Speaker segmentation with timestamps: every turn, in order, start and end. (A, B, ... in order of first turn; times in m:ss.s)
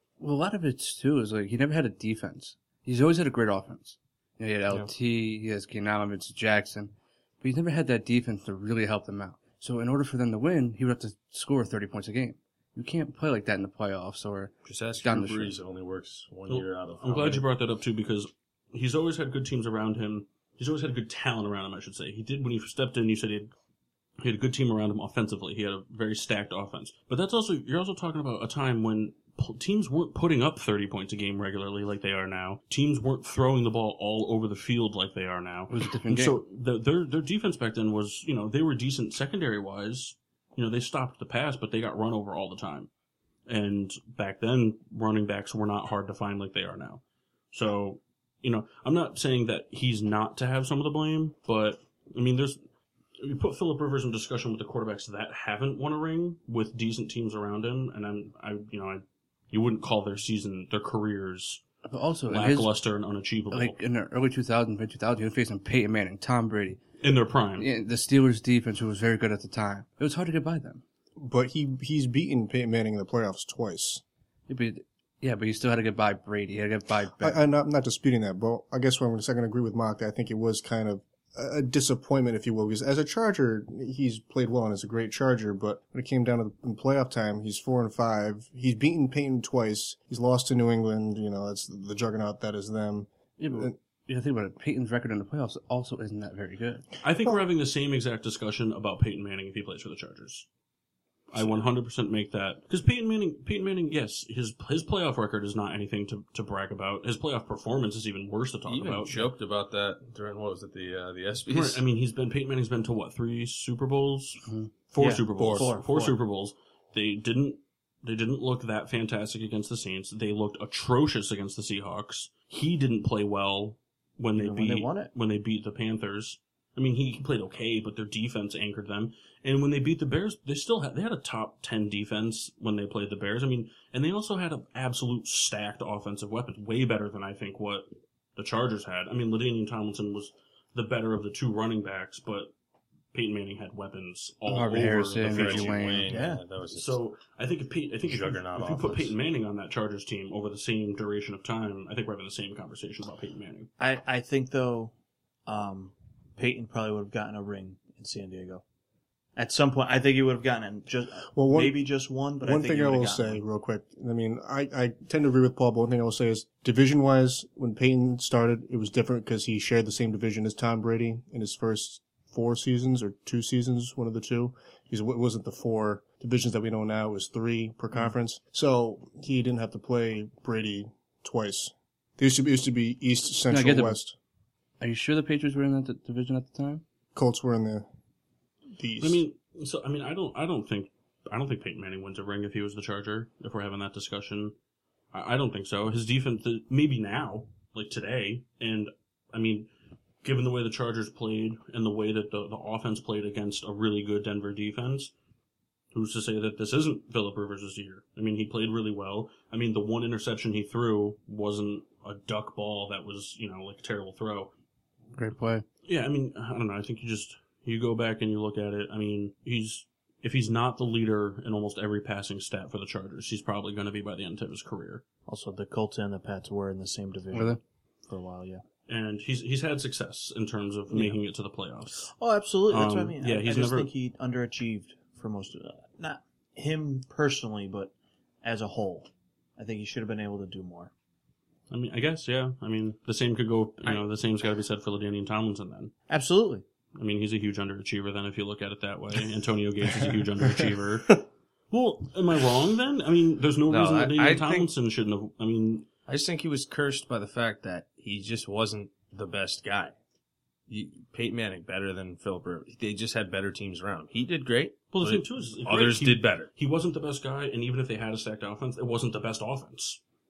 0:00.2-0:15.6 A
0:14.6-0:17.5 B
0:16.5-0:23.5 C
0:24.2-0:42.9 C
0:35.7-0:36.4 A
0:43.5-0:52.6 C
0:53.2-1:01.6 C
1:01.9-1:02.7 A
1:02.3-1:03.8 C
1:03.5-1:06.8 A
1:07.0-1:07.7 C
1:07.6-1:10.8 A
1:11.2-1:14.0 D
1:14.5-1:17.4 A
1:17.2-1:33.7 D
1:33.4-1:36.9 A
1:37.0-1:40.5 C
1:41.3-1:49.3 C
1:41.4-1:41.6 B
1:48.7-1:51.8 B
1:51.5-2:22.5 C
1:55.0-1:56.1 E
1:55.4-1:55.7 D
2:04.4-2:05.1 E
2:23.1-2:25.8 C
2:24.5-2:26.2 A
2:25.2-2:27.0 B
2:26.1-2:26.4 E
2:26.7-2:33.7 C
2:28.0-2:29.2 B
2:33.8-2:34.9 E
2:35.4-2:38.6 E
2:39.4-2:43.4 E
2:41.3-2:41.8 D
2:42.4-3:04.1 D
3:03.5-3:04.0 A
3:04.8-3:06.8 A
3:07.1-3:07.9 D
3:08.7-3:09.2 D
3:09.0-3:14.5 C
3:15.1-3:19.7 C
3:20.2-3:25.1 C
3:25.9-3:34.5 C
3:35.2-3:35.6 A
3:35.8-3:45.0 C
3:45.3-3:48.6 E
3:47.3-3:47.6 A
3:48.9-3:52.1 C
3:50.9-3:51.2 E
3:52.1-4:00.9 E
3:52.7-3:53.9 C
4:01.7-4:05.9 C
4:06.1-4:06.6 E
4:07.0-4:15.9 C
4:13.7-4:14.7 B
4:16.0-4:19.9 B
4:20.7-4:26.5 B
4:24.9-4:30.0 C